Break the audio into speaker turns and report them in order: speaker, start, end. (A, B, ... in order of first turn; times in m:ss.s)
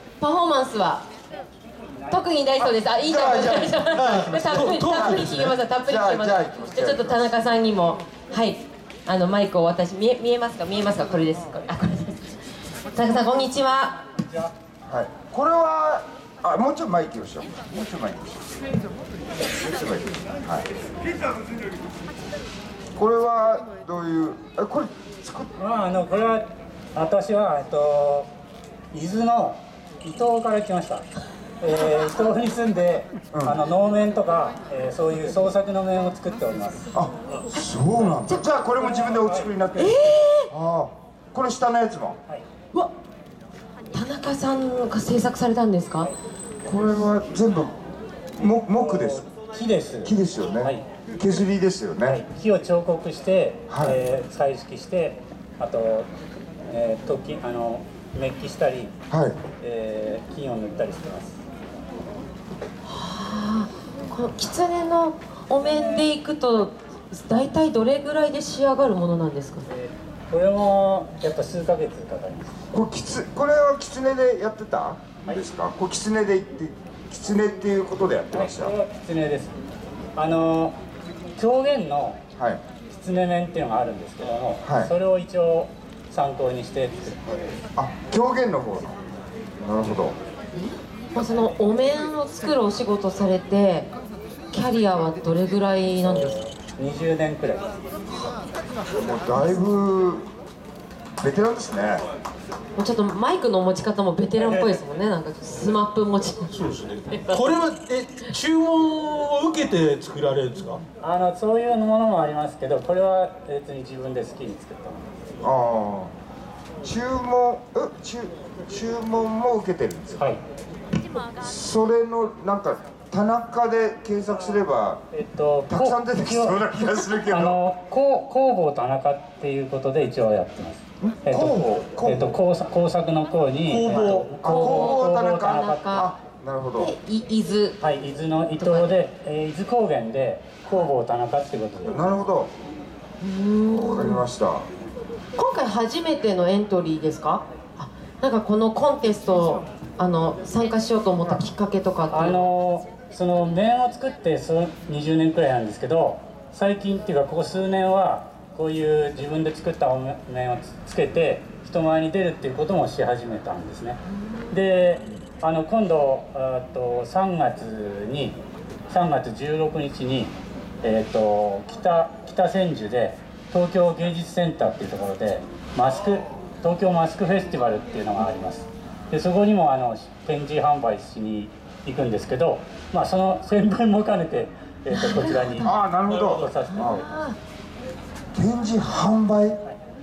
0:00.2-0:01.0 A
0:02.1-0:12.2 A
0:02.6-0:07.3 B
0:03.9-0:05.6 C
0:12.9-0:14.0 A
0:14.9-0:18.5 B
0:19.5-0:20.7 B
0:23.0-0:25.5 B
0:25.6-0:28.3 D
0:28.9-0:31.0 D
0:31.6-0:36.9 D
0:33.3-0:33.6 B
0:36.9-0:42.2 B
0:38.0-0:38.3 D
0:38.8-0:40.3 D
0:39.8-0:40.5 A
0:43.9-0:46.1 A
0:46.6-0:47.7 B
0:48.4-0:49.2 B
0:48.8-0:50.8 D
0:50.0-0:52.2 B
0:52.0-0:56.1 D
0:53.7-0:54.0 B
0:56.7-0:58.9 D
0:59.1-0:59.4 B
0:59.6-1:01.4 D
1:02.9-1:09.7 A
1:09.7-1:12.6 D
1:12.7-1:18.7 B
1:18.3-1:19.6 D
1:20.2-1:20.8 D
1:21.4-1:22.2 D
1:22.4-1:22.6 B
1:22.9-1:27.2 D
1:24.6-1:24.9 B
1:27.8-1:29.0 B
1:29.6-1:30.2 B
1:30.5-1:33.9 A
1:34.5-1:36.4 A
1:36.1-1:37.8 D
1:38.9-1:40.3 B
1:41.2-1:42.0 B
1:42.8-1:47.4 A
1:46.5-1:50.8 C
1:51.0-1:55.2 D
1:55.4-1:56.1 B
1:56.8-2:00.2 B
2:01.4-2:05.0 B
2:05.1-2:16.1 D
2:05.7-2:07.6 B
2:11.0-2:12.3 B
2:13.7-2:14.3 C
2:13.9-2:16.9 B
2:14.4-2:16.1 A
2:16.8-2:17.8 A
2:17.8-2:22.1 D
2:18.6-2:18.9 A
2:21.9-2:22.5 B
2:23.2-2:24.2 A
2:23.7-2:24.7 B
2:25.4-2:32.4 A
2:32.1-3:07.1 D
2:44.1-2:44.6 A
3:04.9-3:05.7 A
3:05.6-3:07.1 B
3:06.7-3:07.4 A
3:08.3-3:09.6 B